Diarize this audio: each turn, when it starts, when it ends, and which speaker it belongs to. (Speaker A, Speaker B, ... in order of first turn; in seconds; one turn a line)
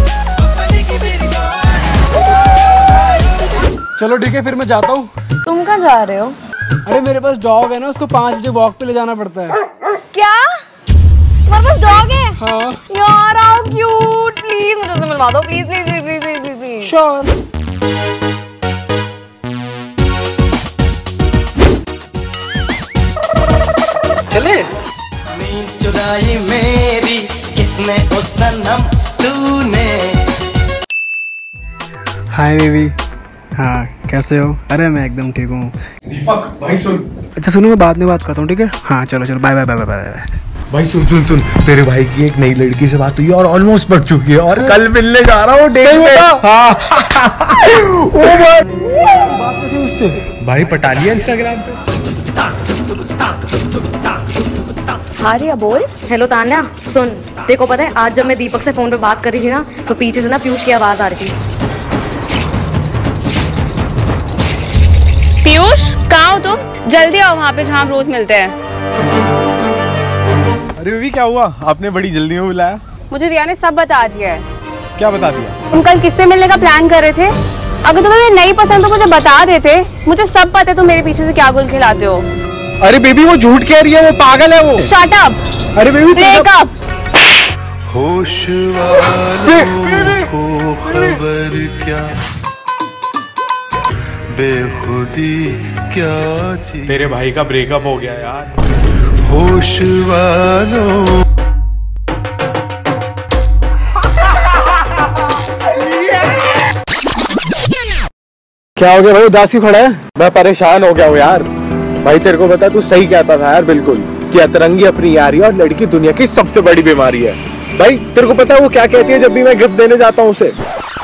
Speaker A: 1.0-1.4
Speaker A: 4.0-5.1
Speaker B: 5.5-6.2
Speaker A: 6.8-9.6
Speaker B: 9.9-10.5
Speaker B: 11.5-16.9
Speaker A: 12.4-12.8
Speaker A: 16.8-17.3
Speaker A: 24.3-24.7
Speaker C: 25.4-30.1
Speaker A: 32.3-33.0
Speaker A: 33.5-35.7
Speaker D: 36.1-37.1
Speaker A: 37.4-40.3
Speaker D: 40.7-48.8
Speaker A: 45.9-46.4
Speaker A: 49.0-50.3
Speaker D: 50.4-51.7
Speaker E: 55.2-55.9
Speaker F: 56.0-61.3
Speaker E: 65.4-68.5
Speaker D: 70.8-72.8
Speaker E: 73.1-74.4
Speaker D: 75.0-75.5
Speaker E: 75.7-77.3
Speaker E: 77.8-82.3
Speaker D: 82.8-84.9
Speaker E: 84.9-85.4
Speaker D: 85.8-86.5
Speaker E: 86.1-86.7
Speaker G: 87.9-92.2
Speaker D: 89.4-90.3
Speaker G: 94.3-97.0
Speaker D: 96.8-98.5
Speaker G: 99.2-101.2
Speaker D: 108.8-111.5
Speaker D: 112.0-120.5